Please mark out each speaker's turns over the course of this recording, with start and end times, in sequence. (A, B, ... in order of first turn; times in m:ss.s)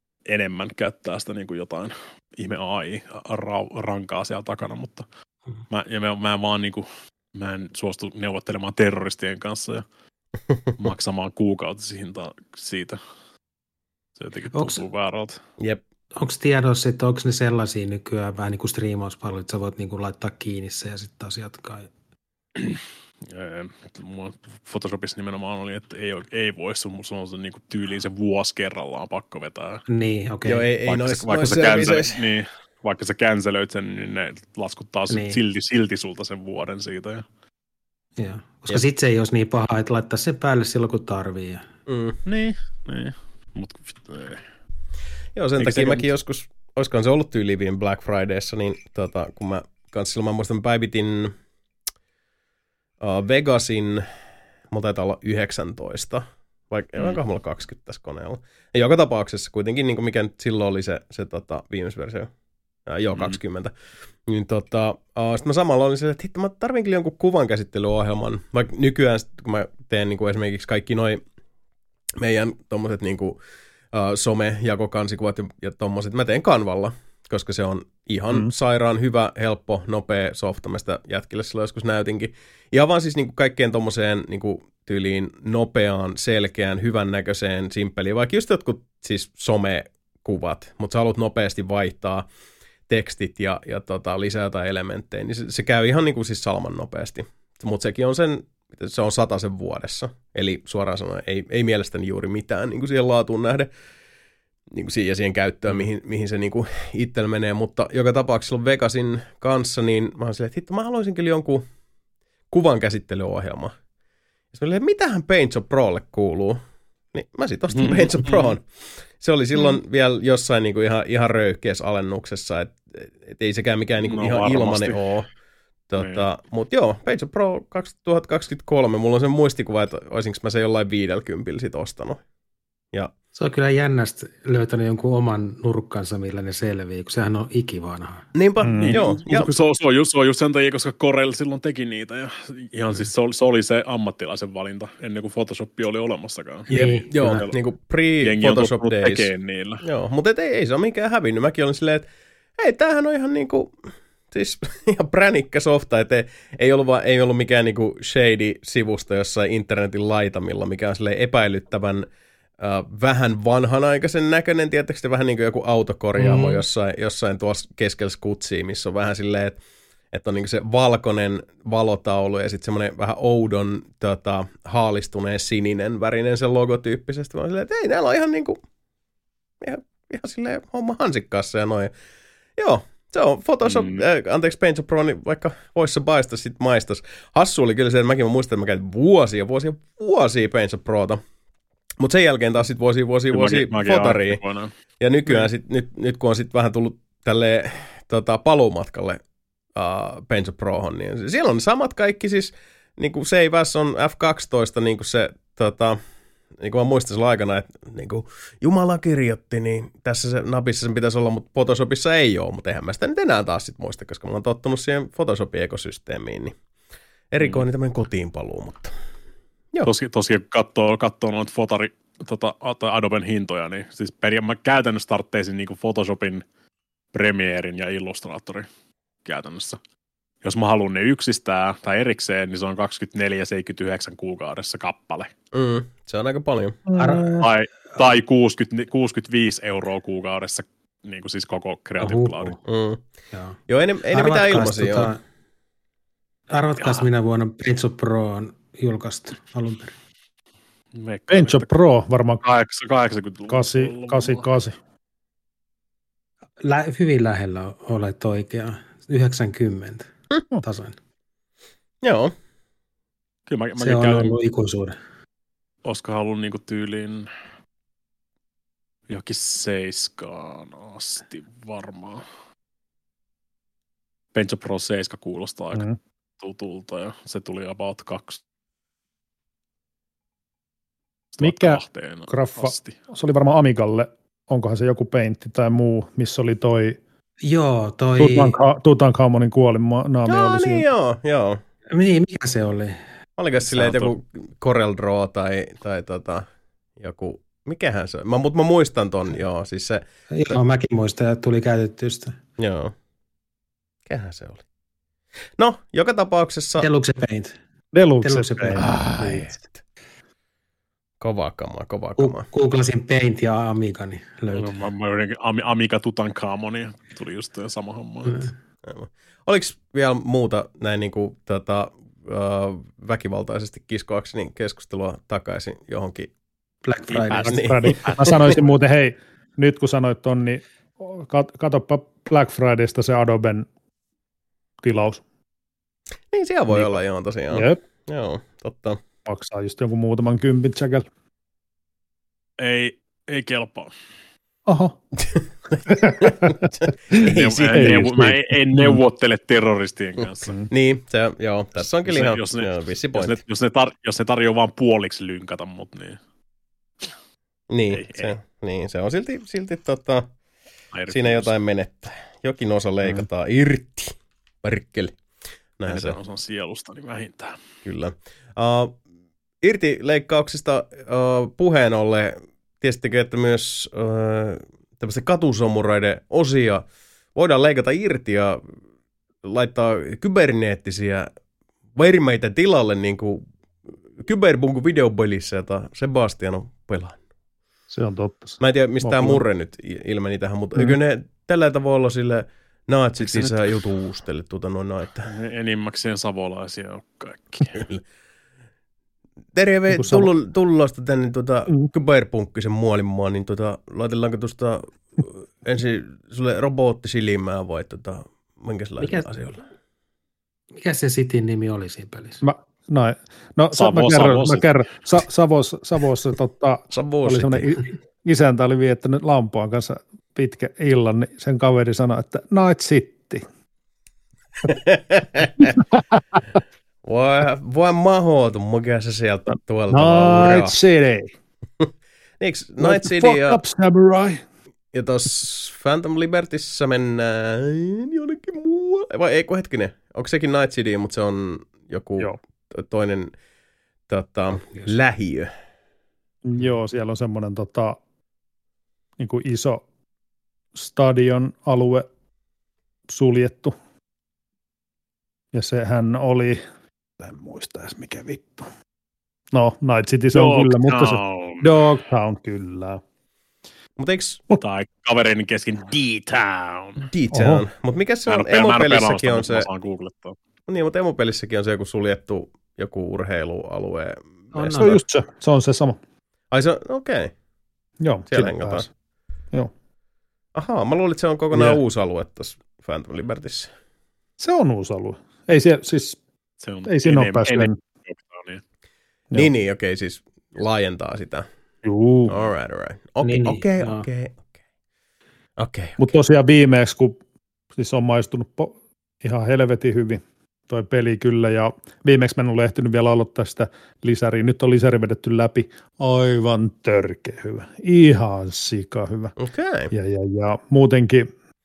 0:00.3-0:05.0 A
0:05.7-0:09.8 A
0:10.8-0:13.0 A
0:14.2-0:15.4 A
0:14.5-0:14.8 B
0:16.2-0:21.9 B
0:22.6-0:29.8 A
0:29.9-0:30.7 B
0:30.4-0:32.2 C
0:30.8-0:37.2 A
0:35.1-0:35.4 B
0:38.2-0:41.6 B
0:41.9-0:42.2 C
0:42.2-0:44.4 A
0:45.4-0:51.3 C
0:45.6-0:46.1 A
0:53.0-0:54.0 C
0:54.7-1:02.3 C
1:02.9-1:03.7 C
1:03.1-1:03.4 A
1:04.3-1:11.2 C
1:12.2-1:13.4 C
1:13.9-1:32.3 C
1:32.9-1:43.7 C
1:44.7-1:51.6 C
1:52.5-1:53.7 C
1:54.5-1:56.6 C
1:57.1-2:05.3 C
1:57.7-1:58.6 A
2:04.0-2:05.1 A
2:05.9-2:12.2 C
2:06.0-2:06.3 A
2:13.3-2:18.3 B
2:18.4-2:19.5 C
2:18.6-2:19.0 D
2:18.8-2:27.6 A
2:26.7-2:27.4 B
2:26.7-2:29.3 C
2:28.2-2:29.8 A
2:29.8-2:42.1 C
2:42.6-2:49.6 C
2:46.2-2:46.6 B
2:50.1-2:58.6 C
2:59.6-3:01.9 C
3:02.6-3:11.2 C
3:03.6-3:04.1 A
3:12.0-3:14.4 C
3:13.3-3:14.7 A
3:15.0-3:19.2 C
3:19.7-3:26.0 C
3:26.6-3:36.6 C
3:37.3-3:38.9 C
3:39.8-3:46.4 A
3:47.1-3:48.6 A
3:49.2-3:49.8 A
3:50.4-3:55.3 A
3:55.5-3:56.8 C
3:56.9-3:57.5 D
3:57.0-3:57.5 B
3:57.4-4:02.6 A
4:02.0-4:02.6 B
4:02.6-4:03.0 C
4:03.3-4:03.6 B
4:03.7-4:05.1 C
4:04.1-4:05.2 B
4:06.5-4:09.9 B
4:06.8-4:07.1 A
4:10.9-4:11.7 A
4:11.3-4:12.4 D
4:12.4-4:14.4 A
4:13.5-4:14.8 D
4:16.6-4:20.1 B
4:20.6-4:20.9 B
4:22.0-4:22.3 C
4:23.5-4:24.4 A
4:23.8-4:24.9 B
4:25.8-4:27.3 A
4:29.1-4:32.2 A
4:34.3-4:35.9 A
4:36.4-4:38.4 A
4:41.3-4:42.9 A
4:41.4-4:47.0 D
4:47.4-4:48.6 B
4:48.2-4:50.9 D
4:50.3-4:51.6 C
4:51.9-4:53.0 B
4:53.4-4:56.4 C
4:53.8-4:54.1 A
4:57.0-5:00.0 C
5:00.3-5:02.4 B
5:02.6-5:02.9 C
5:04.1-5:04.6 C
5:05.6-5:06.9 C
5:06.8-5:07.5 B
5:07.9-5:09.1 D
5:08.2-5:09.5 B
5:08.7-5:09.7 C
5:11.2-5:12.4 C
5:12.2-5:14.8 B
5:14.5-5:18.5 A
5:18.8-5:26.3 C
5:26.8-5:27.7 B
5:27.1-5:28.6 A
5:27.4-5:28.4 C
5:27.4-5:33.7 D
5:34.8-5:35.2 D
5:36.3-5:39.0 C
5:37.5-5:37.8 D
5:39.3-5:41.1 D
5:42.6-5:43.9 A
5:44.7-5:45.0 D
5:45.3-5:48.1 C
5:45.9-5:47.2 D
5:47.2-5:50.5 A
5:47.7-5:49.0 D
5:50.7-5:53.4 C
5:52.0-5:56.2 A
5:57.7-6:00.3 C
5:57.9-5:58.4 A
6:00.9-6:01.5 A
6:01.1-6:05.2 C
6:05.8-6:06.2 C
6:05.9-6:07.6 A
6:07.8-6:09.0 C
6:09.6-6:18.6 C
6:19.4-6:21.3 C
6:21.9-6:23.4 C
6:24.1-6:27.2 C
6:27.9-6:29.4 D
6:28.6-6:35.3 C
6:35.3-6:37.8 A
6:39.5-6:49.6 C
6:39.9-6:40.3 D
6:49.0-6:49.3 B
6:50.8-6:52.4 B
6:52.4-7:03.4 D
6:53.7-6:54.7 A
6:56.9-6:57.7 C
7:04.6-7:05.7 C
7:05.6-7:06.4 D
7:07.0-7:10.8 C
7:09.9-7:11.3 D
7:11.8-7:13.6 C
7:12.8-7:14.4 D
7:14.9-7:23.3 C
7:24.1-7:25.5 C
7:26.4-7:28.0 D
7:29.2-7:29.8 D
7:30.7-7:32.1 D
7:33.1-7:33.7 D
7:35.5-7:36.6 D
7:37.2-7:38.7 D
7:39.5-7:43.0 D
7:40.3-7:41.8 A
7:44.0-7:44.4 C
7:44.6-7:47.1 A
7:47.1-7:49.7 C
7:47.3-7:47.6 D
7:48.3-7:50.4 A
7:50.7-7:54.7 C
7:54.5-7:55.0 B
7:54.7-7:56.0 D
7:56.5-7:57.3 C
7:58.0-7:58.9 D
7:58.3-7:58.9 C
8:00.6-8:03.7 C
8:01.5-8:01.8 D
8:04.4-8:06.2 D
8:06.6-8:08.6 A
8:06.9-8:07.8 D
8:09.3-8:11.5 C
8:11.8-8:12.3 D
8:12.3-8:14.5 C
8:13.2-8:14.1 B
8:15.6-8:16.1 C
8:16.0-8:17.2 D
8:17.8-8:29.4 D
8:29.4-8:29.9 C
8:29.9-8:31.3 D